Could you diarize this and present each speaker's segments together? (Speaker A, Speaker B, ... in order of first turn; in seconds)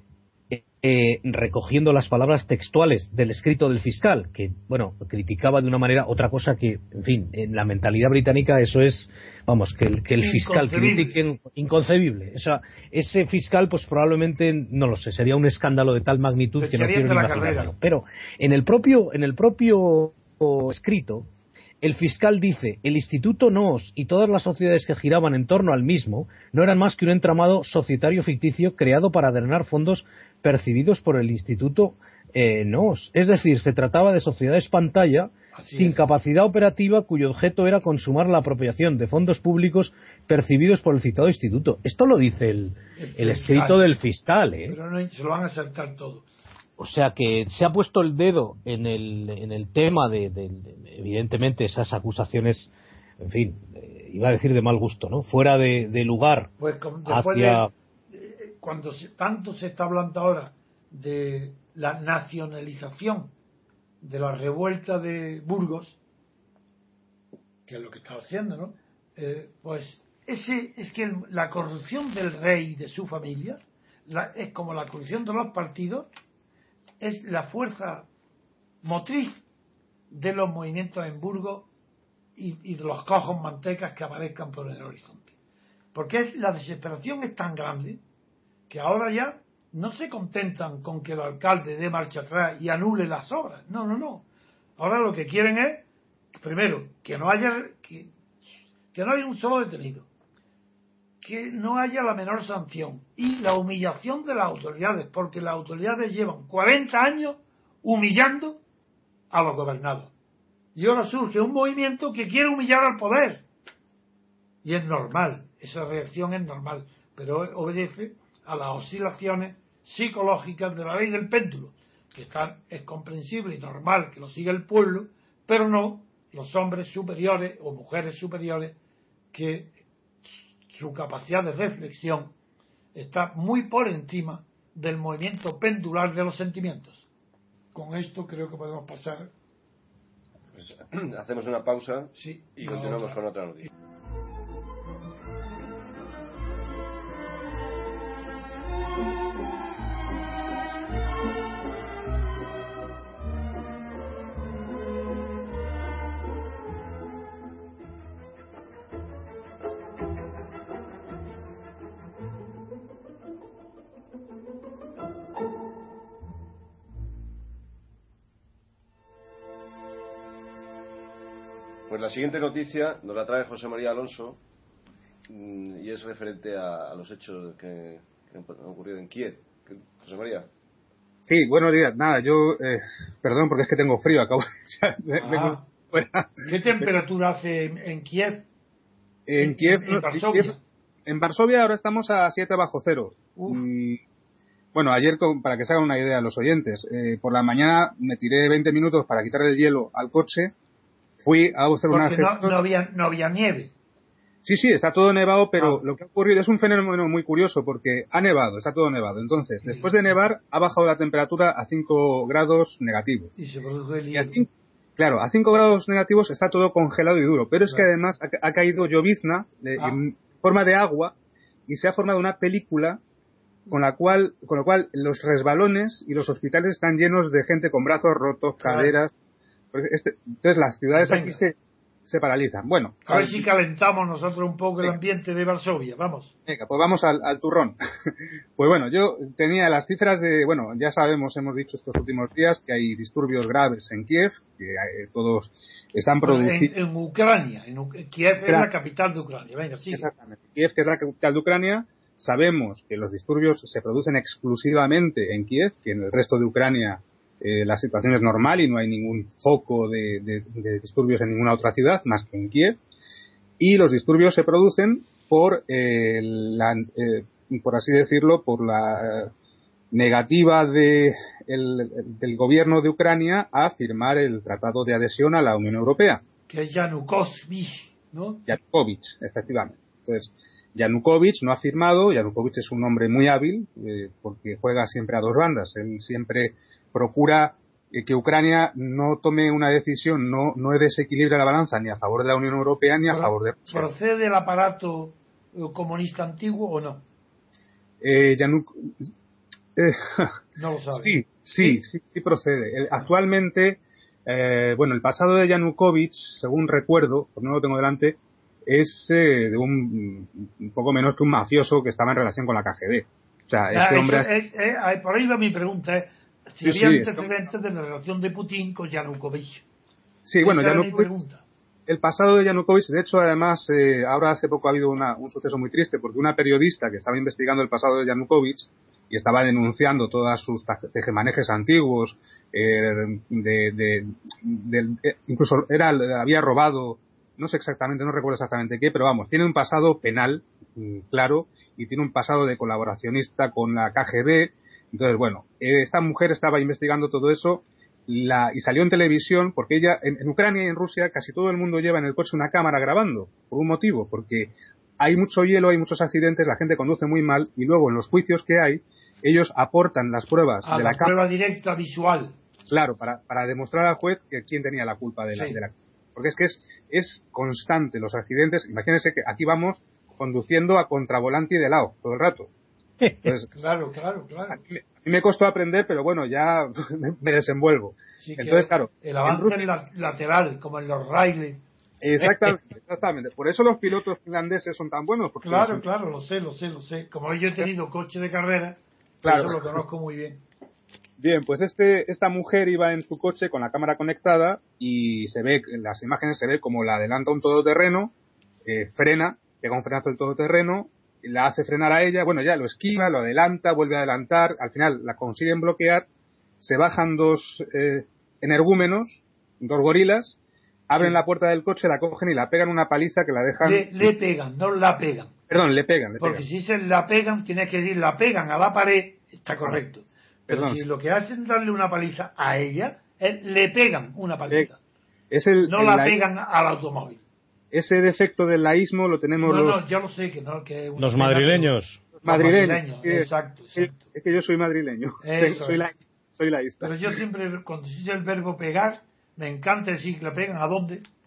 Speaker A: 0.5-21.3, 21.8-44.8, 46.8-52.7, 53.2-56.5, 57.1-57.7, 431.0-432.0
Speaker B: 10.2-11.2, 16.6-17.7, 35.5-36.1, 43.0-43.8, 44.7-46.3, 56.6-63.3, 64.0-66.0, 67.7-76.1, 77.0-78.1, 78.8-79.4, 80.1-81.7, 82.4-85.3, 85.9-88.0, 88.7-94.3, 94.8-98.1, 98.9-100.1, 101.2-108.6, 109.3-110.1, 110.8-113.5, 114.6-128.8, 129.3-129.7, 130.7-132.3, 132.9-137.1, 137.7-139.3, 142.2-143.1, 185.2-185.7, 186.4-188.5, 189.4-190.6, 193.4-193.6, 201.9-203.7, 205.6-205.8, 209.7-209.9, 213.4-214.4, 228.6-228.9, 231.0-231.4, 233.1-236.3, 246.2-250.1, 276.5-278.5, 293.1-297.1, 300.6-301.8, 313.7-319.6, 320.4-321.4, 360.6-362.4, 365.3-365.6, 373.5-374.6, 378.2-381.6, 385.4-390.4, 413.6-415.3, 416.2-424.8, 425.7-427.2, 429.4-431.7, 432.2-434.0, 435.2-435.8, 436.8-441.1
Speaker C: 140.5-143.7, 171.9-174.4, 175.3-180.5
Speaker D: 181.3-186.9, 189.3-190.6, 191.1-194.0, 194.7-200.5, 201.2-202.6, 204.4-213.3, 214.1-221.2, 221.7-223.0, 223.7-229.2, 229.7-233.5, 236.5-237.8, 238.6-246.7, 249.9-262.8, 263.6-269.3, 269.9-276.2, 278.5-293.9, 298.0-299.2, 299.8-300.4, 300.9-314.3, 316.6-317.3, 320.3-321.1, 321.9-361.2, 362.7-372.5, 373.2-373.5, 374.5-379.7, 382.0-385.9, 389.2-389.7, 391.2-398.1, 398.6-406.1, 406.6-410.4, 410.9-414.1, 415.5-416.4, 420.5-420.9, 425.3-426.2, 427.7-429.8, 432.2-437.2